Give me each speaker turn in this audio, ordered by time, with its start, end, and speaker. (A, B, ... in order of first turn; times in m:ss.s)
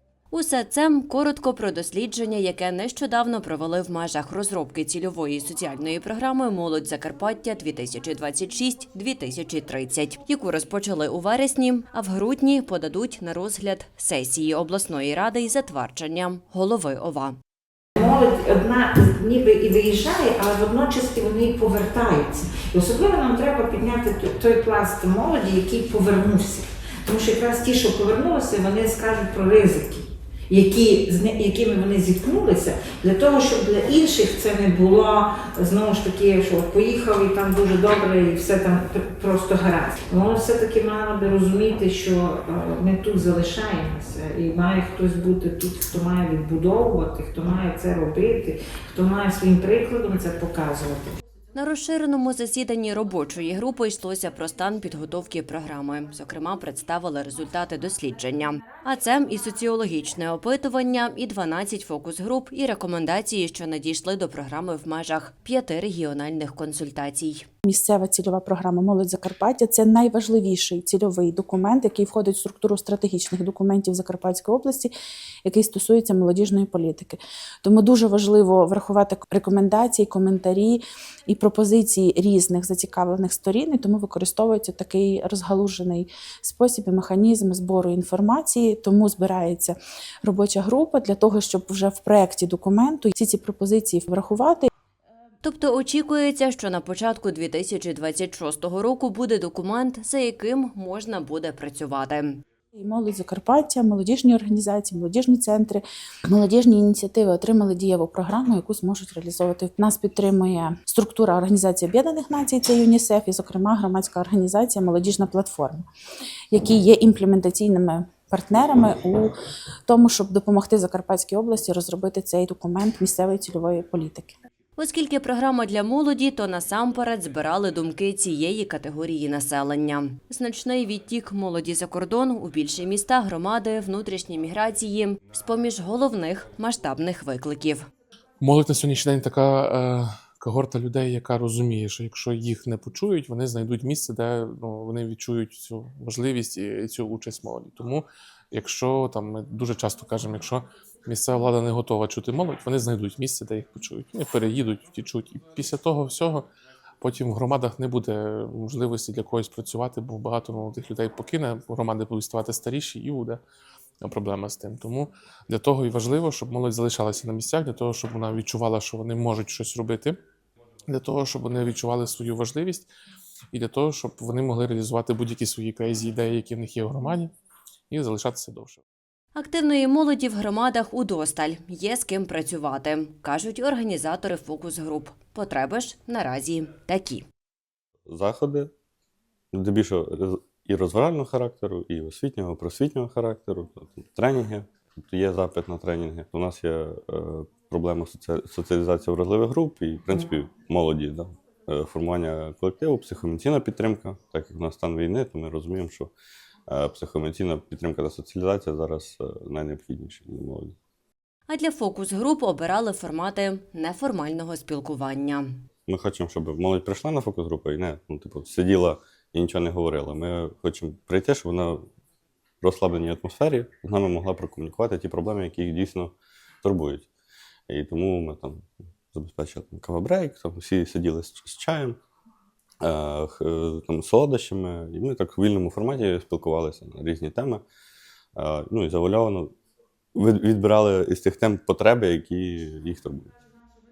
0:00.3-0:17.4 A
0:18.0-0:51.2 B
0:51.5-1:07.4 A
1:07.6-1:14.9 C
1:15.4-1:34.7 C
1:35.4-1:42.4 A
1:42.8-1:55.8 C
1:56.5-1:59.3 C
1:59.9-2:04.4 C
2:04.8-2:17.9 A
2:18.4-2:36.5 D
2:37.0-2:43.4 D
2:44.0-2:50.2 D
2:50.9-2:52.9 D
2:53.5-2:57.3 D
2:57.9-2:58.8 D
2:59.4-3:07.2 A
3:08.1-3:08.7 E
3:09.6-3:26.1 E
3:26.7-3:30.7 E
3:31.5-3:35.6 A
3:35.9-3:41.7 E
3:42.6-3:46.1 E
3:46.6-3:47.0 E
3:47.7-3:48.6 E
3:49.1-3:51.9 E
3:52.8-3:57.5 E
3:58.4-3:59.4 E
4:00.2-4:03.1 E